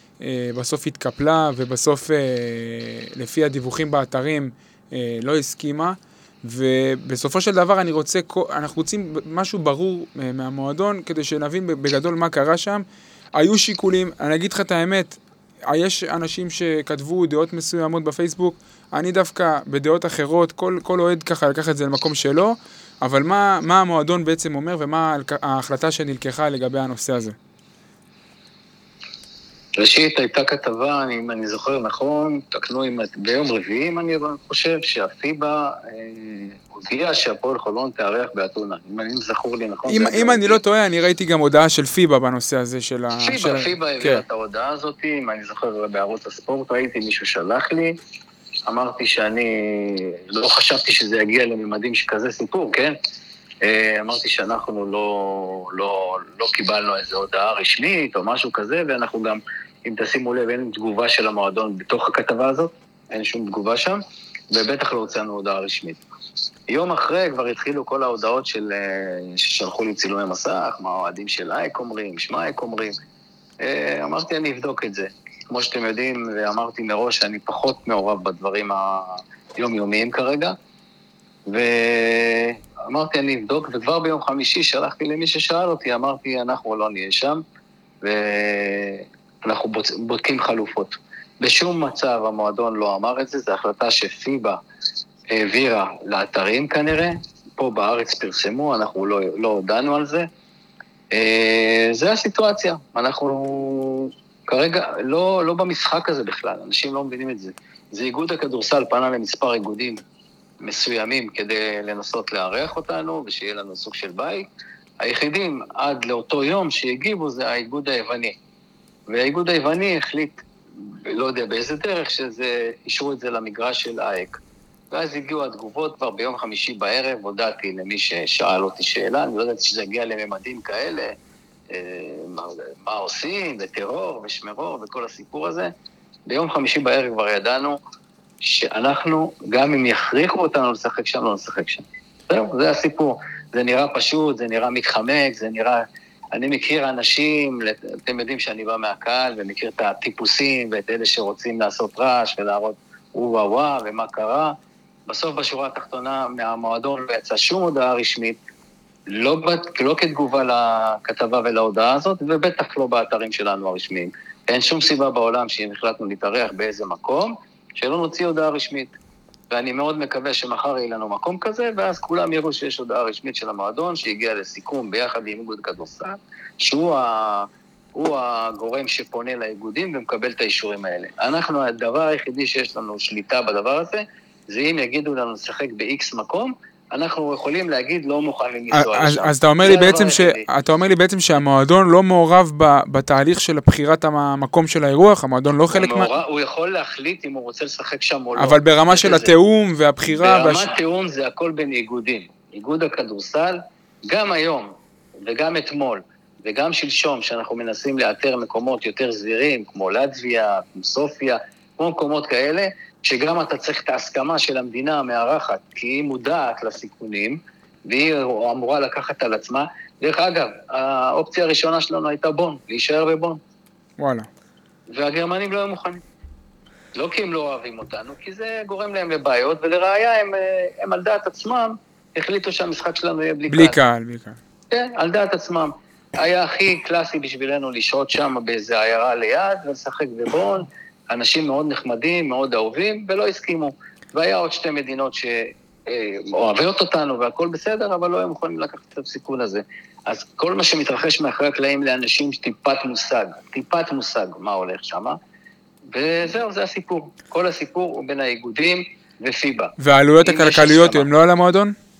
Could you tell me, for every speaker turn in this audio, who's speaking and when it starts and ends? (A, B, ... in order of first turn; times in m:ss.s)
0:00.2-0:12.8 A
0:13.4-0:27.3 A
0:29.8-0:40.6 B
0:39.9-0:44.2 A
0:43.2-0:48.0 B
0:48.7-0:53.0 B
0:53.6-1:06.0 B
1:06.7-1:13.0 B
1:13.6-1:20.6 B
1:21.5-1:27.4 B
1:28.0-1:34.6 B
1:35.3-1:40.3 B
1:41.1-1:50.0 B
1:50.6-1:54.5 B
1:55.0-1:58.3 B
1:59.1-2:00.4 B
2:01.0-2:04.4 B
2:04.9-2:11.2 B
2:11.7-2:15.7 B
2:16.3-2:17.8 B
2:18.4-2:34.5 B
2:35.1-2:38.4 B
2:39.1-2:48.9 B
2:49.5-3:10.4 B
3:08.7-3:16.1 A
3:15.7-3:19.3 B
3:18.3-3:20.7 A
3:20.0-3:43.4 B
3:44.0-3:44.3 A
3:44.9-3:46.0 B
3:46.9-3:53.8 B
3:53.5-3:54.4 A
3:54.7-4:15.2 B
4:15.9-4:21.1 B
4:19.8-4:21.7 A